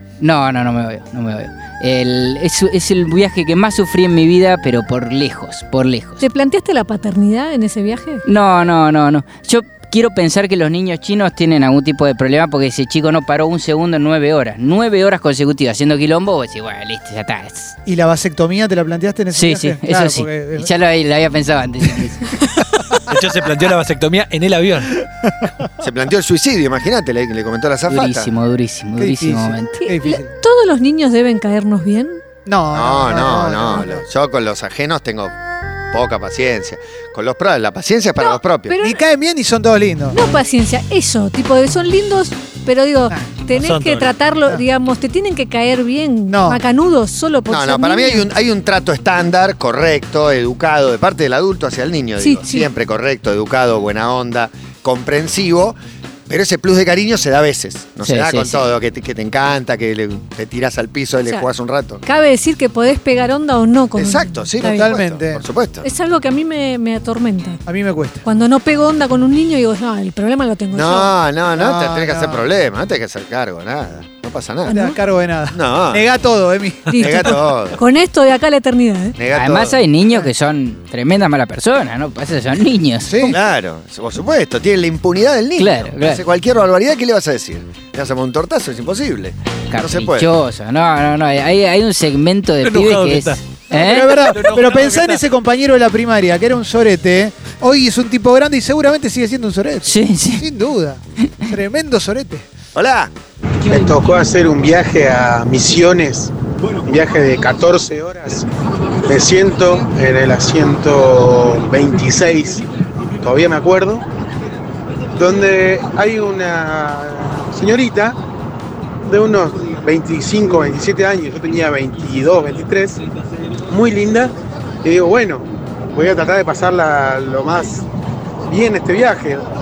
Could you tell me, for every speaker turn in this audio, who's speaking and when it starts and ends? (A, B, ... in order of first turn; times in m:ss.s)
0:00.2-0:06.2 A
0:06.2-0:08.2 B
0:08.2-0:17.8 A
0:17.9-0:20.7 C
0:19.3-0:22.3 A
0:23.0-0:25.0 D
0:25.8-0:28.3 E
0:27.9-0:29.8 A
0:29.0-0:30.4 C
0:29.8-0:32.2 B
0:32.4-0:34.0 C
0:32.7-0:35.3 E
0:35.9-0:38.8 E
0:38.2-0:39.0 B
0:38.8-0:40.2 C
0:40.1-0:48.3 B
0:43.5-0:44.1 D
0:46.3-0:46.6 C
0:47.5-0:55.8 E
0:52.2-0:52.7 B
0:56.3-1:02.0 E
0:58.0-0:58.7 A
1:02.0-1:05.0 B
1:04.0-1:05.9 E
1:04.6-1:05.4 C
1:05.8-1:07.6 B
1:07.7-1:08.2 C
1:08.2-1:11.2 B
1:10.7-1:14.8 E
1:11.6-1:12.4 C
1:14.7-1:15.0 B
1:14.7-1:17.4 C
1:15.5-1:16.1 E
1:16.9-1:19.2 B
1:17.0-1:17.8 E
1:19.2-1:19.8 E
1:19.3-1:23.3 A
1:23.0-1:23.4 C
1:23.3-1:30.3 E
1:25.6-1:26.2 A
1:29.7-1:34.3 A
1:32.6-1:35.2 D
1:33.7-1:42.5 C
1:39.8-1:40.5 A
1:42.8-1:43.1 E
1:43.6-1:46.3 F
1:46.8-1:48.4 F
1:49.1-1:52.6 F
1:53.2-1:54.0 F
1:55.2-1:58.2 F
1:59.0-2:03.0 F
2:03.7-2:04.3 F
2:04.8-2:07.8 F
2:08.5-2:09.4 F